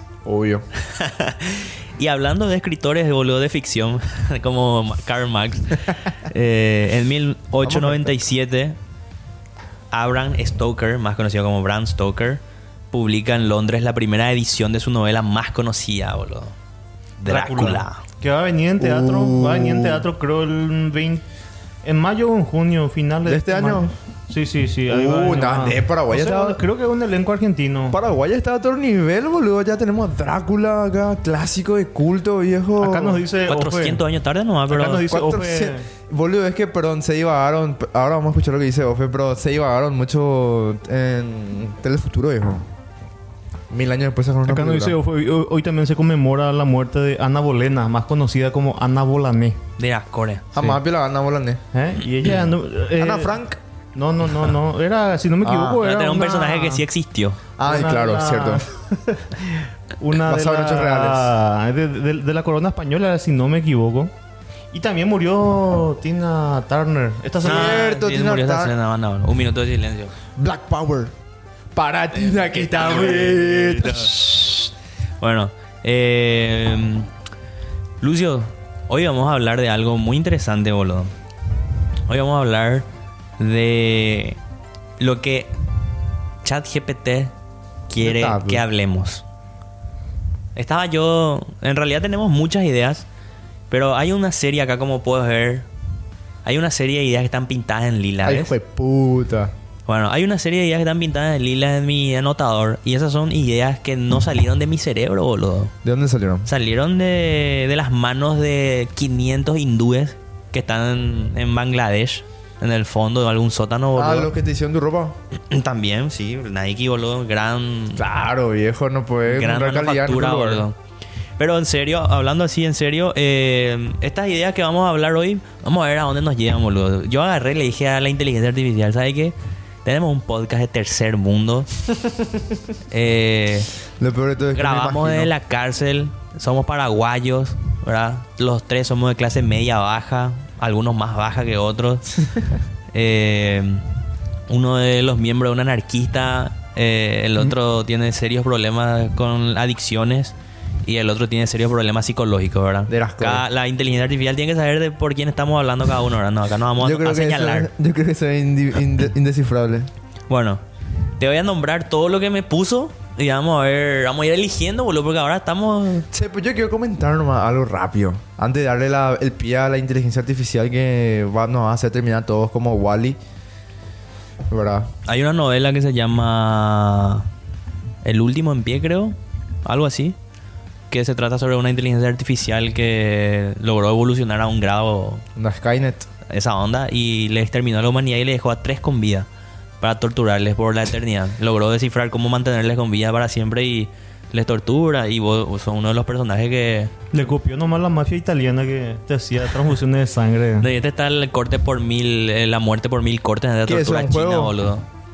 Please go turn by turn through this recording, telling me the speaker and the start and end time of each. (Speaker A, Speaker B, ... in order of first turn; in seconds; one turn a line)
Speaker A: 0.2-0.7
Speaker B: 0.8-8.8
Speaker A: 7.6-8.2
Speaker B: 9.9-16.5
Speaker B: 17.2-18.0
Speaker C: 17.2-21.2
Speaker A: 18.8-20.1
Speaker C: 21.8-28.0
Speaker A: 23.3-23.9
Speaker A: 24.9-26.6
Speaker A: 27.9-33.2
Speaker C: 32.8-34.0
Speaker B: 33.5-35.0
Speaker C: 34.7-35.9
Speaker A: 35.1-42.6
Speaker A: 43.7-45.0
Speaker C: 44.5-49.6
Speaker B: 49.8-50.5
Speaker A: 50.5-51.6
Speaker C: 51.7-53.4
Speaker A: 53.0-53.6
Speaker C: 53.9-56.9
Speaker A: 55.4-55.8
Speaker B: 55.8-57.4
Speaker A: 57.6-58.6
Speaker C: 57.6-64.1
Speaker A: 60.2-61.3
Speaker C: 64.7-68.0
Speaker A: 67.4-68.7
Speaker B: 67.4-70.1
Speaker A: 70.4-71.1
Speaker A: 71.8-74.1
Speaker B: 72.3-77.1
Speaker B: 78.0-81.1
Speaker B: 82.1-82.9
Speaker B: 83.4-84.4
Speaker B: 85.0-85.5
Speaker B: 86.4-87.3
Speaker B: 87.9-89.2
Speaker A: 88.0-88.6
Speaker B: 90.6-93.0
Speaker B: 93.7-95.7
Speaker B: 96.5-98.5
Speaker A: 98.2-99.5
Speaker B: 99.9-105.7
Speaker A: 105.8-106.5
Speaker B: 106.5-114.3
Speaker A: 114.0-115.2
Speaker B: 115.5-118.0
Speaker A: 118.0-120.7
Speaker B: 119.2-120.8
Speaker B: 121.4-131.7
Speaker B: 132.9-133.7
Speaker A: 134.0-135.3
Speaker B: 134.6-142.2
Speaker B: 142.9-143.8
Speaker B: 144.5-150.3
Speaker B: 150.8-157.7
Speaker A: 152.9-153.4
Speaker A: 156.8-159.9
Speaker B: 160.3-160.6
Speaker B: 161.2-166.1
Speaker A: 166.1-173.2
Speaker A: 174.5-174.9
Speaker B: 175.1-177.3
Speaker B: 178.0-180.2
Speaker B: 180.9-185.2
Speaker A: 185.4-186.1
Speaker B: 186.3-189.3
Speaker B: 189.8-196.9
Speaker C: 197.1-200.7
Speaker B: 200.6-204.8
Speaker A: 203.7-204.6